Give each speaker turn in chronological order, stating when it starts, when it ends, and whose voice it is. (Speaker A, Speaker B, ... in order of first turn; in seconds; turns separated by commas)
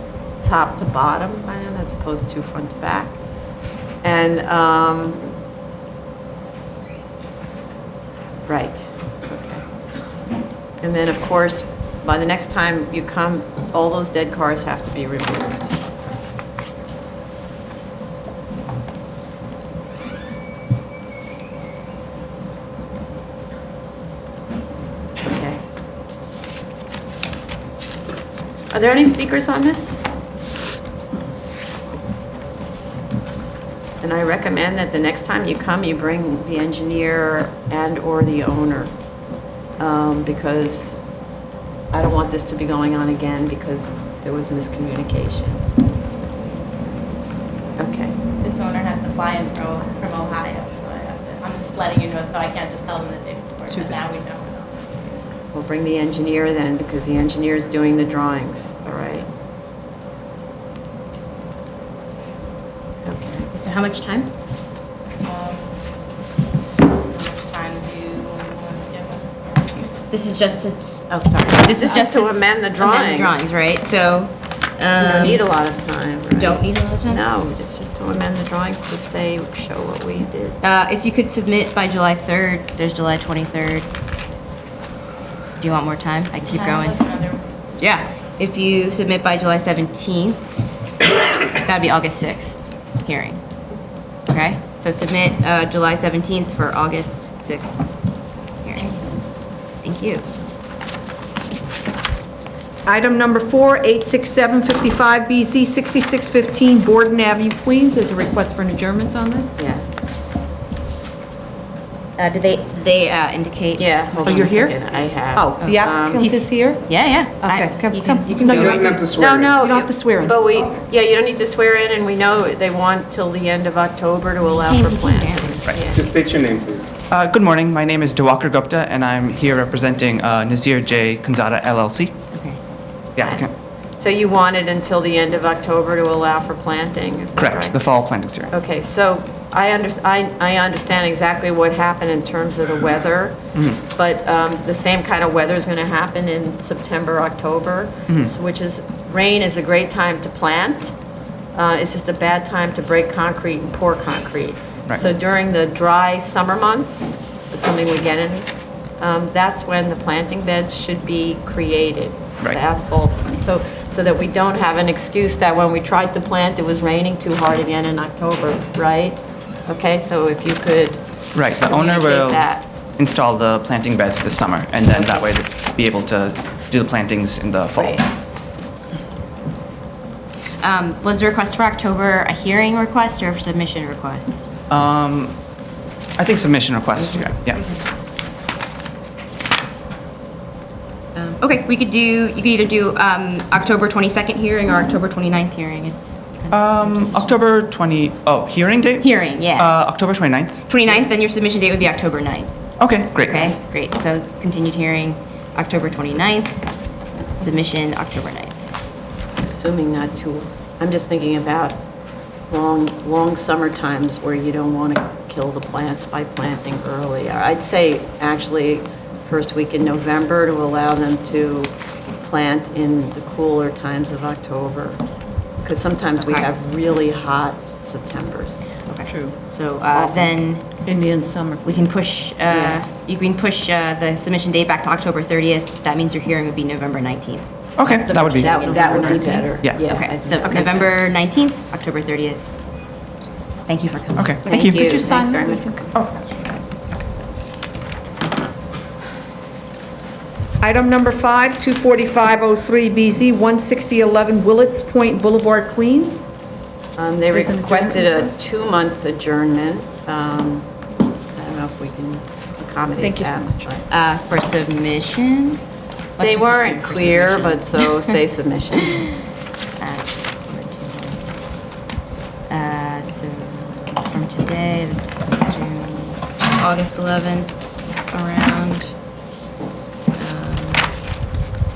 Speaker A: 0.4-3.2, Speaker A: 4.0-5.3, Speaker A: 8.5-9.6, Speaker A: 10.8-15.8, Speaker A: 25.2-25.6, Speaker A: 28.7-30.0, Speaker A: 34.0-38.9, Speaker A: 39.8-41.0, Speaker A: 41.9-45.6, Speaker A: 47.8-48.2, Speaker B: 48.4-54.3, Speaker C: 51.6-54.8, Speaker D: 53.7-54.0, Speaker A: 55.5-59.3, Speaker A: 63.0-63.5, Speaker B: 63.5-64.3, Speaker C: 65.2-65.7, Speaker C: 67.1-69.9, Speaker B: 70.1-75.4, Speaker A: 71.7-73.5, Speaker A: 75.0-80.6, Speaker B: 76.3-77.2, Speaker B: 80.6-83.9, Speaker B: 85.6-87.1, Speaker C: 86.3-87.4, Speaker B: 87.8-93.4, Speaker B: 94.3-97.9, Speaker C: 98.7-99.1, Speaker B: 99.8-100.3, Speaker D: 102.8-109.5, Speaker A: 109.5-109.8, Speaker B: 112.2-114.5, Speaker A: 113.8-116.3, Speaker D: 114.3-114.8, Speaker D: 115.3-116.8, Speaker B: 116.2-119.1, Speaker D: 117.4-118.8, Speaker E: 118.6-119.5, Speaker A: 118.6-126.1, Speaker D: 119.6-120.4, Speaker B: 124.4-125.6, Speaker E: 125.9-126.9, Speaker F: 127.1-132.1, Speaker B: 132.3-132.6, Speaker F: 133.2-133.5, Speaker A: 133.2-137.8, Speaker F: 137.4-138.5, Speaker A: 138.5-150.9, Speaker F: 143.5-143.8, Speaker A: 151.5-172.6, Speaker F: 171.3-178.0, Speaker A: 174.9-175.2, Speaker A: 177.8-178.0, Speaker B: 180.6-184.4, Speaker F: 184.7-185.4, Speaker F: 186.2-187.6, Speaker B: 187.1-187.8, Speaker B: 191.4-197.3, Speaker F: 196.5-200.6, Speaker B: 199.0-199.9, Speaker B: 200.7-206.7, Speaker F: 202.8-203.6, Speaker B: 207.4-208.7, Speaker A: 209.4-211.8, Speaker A: 212.5-225.0, Speaker A: 225.6-228.6, Speaker B: 226.2-226.5, Speaker B: 228.9-230.7, Speaker D: 229.9-230.3, Speaker D: 230.8-231.9, Speaker B: 231.6-242.4, Speaker F: 237.8-238.6, Speaker A: 238.2-240.9, Speaker F: 239.6-239.9, Speaker B: 243.7-245.6, Speaker F: 244.2-244.9, Speaker D: 244.5-246.4, Speaker A: 244.6-245.2, Speaker D: 250.6-256.2, Speaker A: 257.0-260.7, Speaker D: 257.3-258.4, Speaker A: 261.3-263.9, Speaker D: 263.0-263.7, Speaker B: 263.9-265.6, Speaker B: 266.2-268.1, Speaker A: 266.2-269.1, Speaker B: 269.8-271.4, Speaker B: 272.5-278.9, Speaker B: 280.2-280.9